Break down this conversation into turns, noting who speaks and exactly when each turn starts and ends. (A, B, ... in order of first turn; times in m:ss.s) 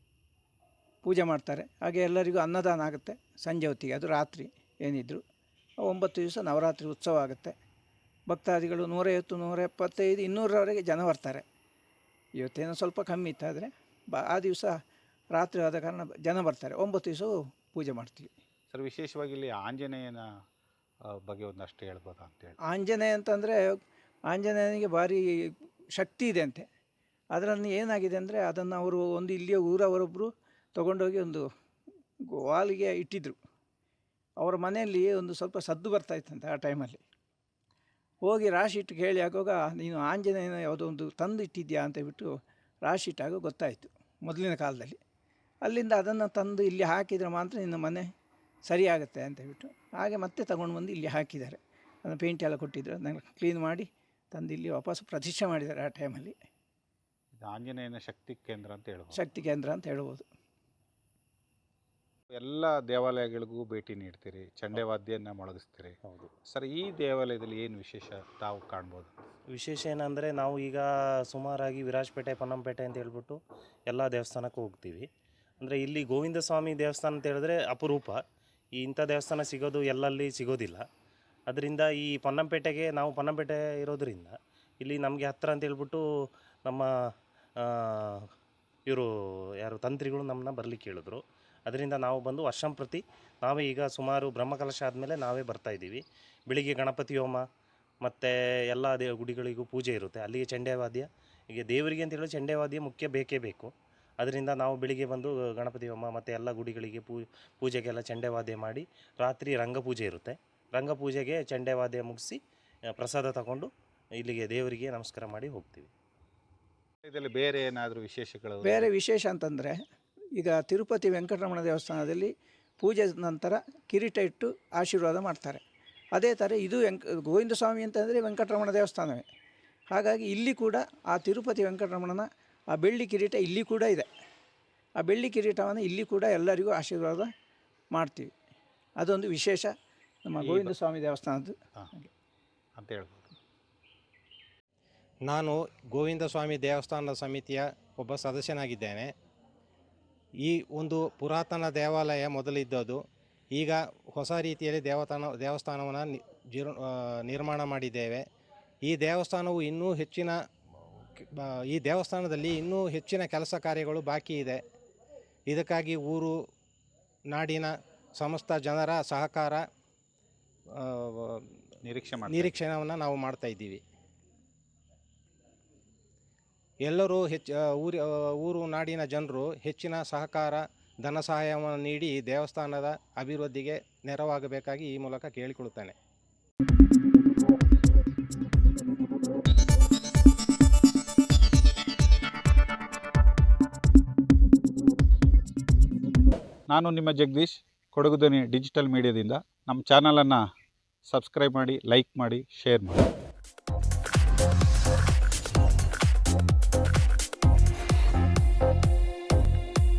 0:01.0-0:05.2 A
0:05.8-0:07.5 A
0:08.3-0:11.4 A
0:12.4-0:14.7 A
0:15.3-0:18.3 A
0:18.7-0:20.2 B
0:21.1-0:22.6 B
0:22.7-0:23.8 A
0:24.3-0:26.7 A
0:27.3-0:31.4 A
0:32.3-0:33.4 A
0:34.4-0:37.0 A
0:38.2-0:42.3 A
0:42.8-0:45.0 A
0:45.6-0:48.1 A
0:48.7-0:56.4 A
0:57.4-0:59.2 B
0:59.1-1:00.2 A
1:02.3-1:09.3 B
1:06.0-1:06.3 C
1:09.5-1:15.1 C
1:15.6-1:18.2 C
1:18.8-1:20.8 C
1:21.5-1:26.0 C
1:27.6-1:27.9 C
1:29.6-1:37.4 C
1:38.0-1:52.4 C
1:52.9-1:55.9 C
1:57.0-1:58.9 B
1:58.6-1:59.8 A
2:00.4-2:05.6 A
2:06.2-2:09.2 A
2:09.9-2:14.1 A
2:15.0-2:17.3 A
2:17.9-2:18.3 A
2:19.0-2:19.7 A
2:20.3-2:22.1 A
2:22.8-2:23.3 B
2:25.3-2:29.1 D
2:30.4-2:33.0 D
2:33.5-2:38.2 D
2:38.8-2:40.4 D
2:41.2-2:44.6 D
2:45.5-2:46.3 D
2:47.3-2:49.6 D
2:50.8-2:51.4 D
2:51.8-2:52.6 B
2:52.3-2:53.8 D
2:56.8-3:06.0 D
3:16.7-3:20.4 B
3:21.1-3:23.1 B